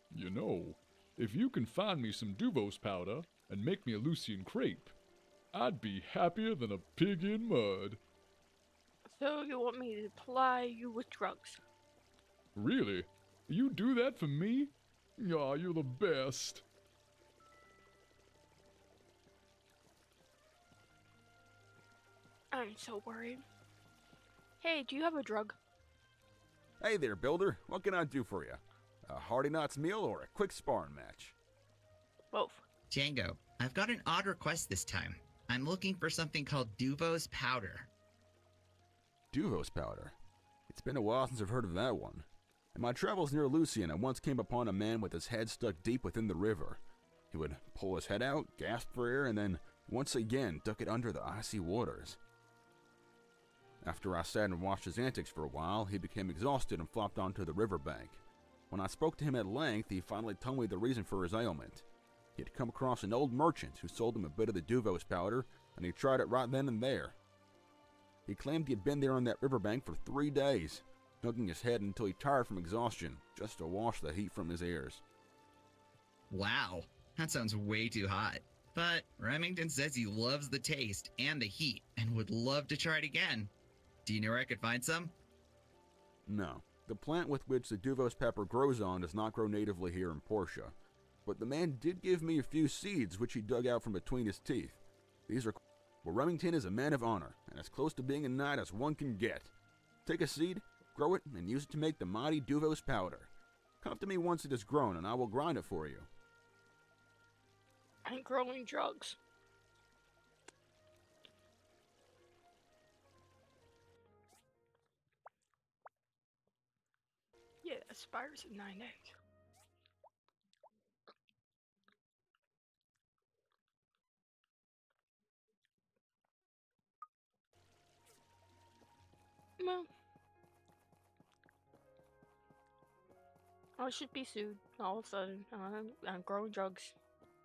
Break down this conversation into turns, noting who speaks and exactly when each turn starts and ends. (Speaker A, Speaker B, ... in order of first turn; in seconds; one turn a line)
Speaker A: 0.1-4.9
Speaker A: 5.5-8.0
Speaker B: 9.1-11.6
Speaker A: 12.6-16.6
Speaker B: 22.5-23.4
Speaker B: 24.6-25.6
Speaker C: 26.8-31.4
Speaker B: 32.3-32.6
Speaker D: 32.9-37.9
Speaker C: 39.3-40.2
Speaker C: 40.7-52.2
Speaker C: 53.8-61.8
Speaker C: 62.4-67.2
Speaker C: 68.3-75.0
Speaker D: 76.3-83.5
Speaker D: 84.1-85.1
Speaker C: 86.3-99.5
Speaker C: 100.1-103.3
Speaker C: 103.8-106.1
Speaker B: 108.1-109.2
Speaker B: 117.6-119.1
Speaker B: 129.6-129.9
Speaker B: 133.8-136.9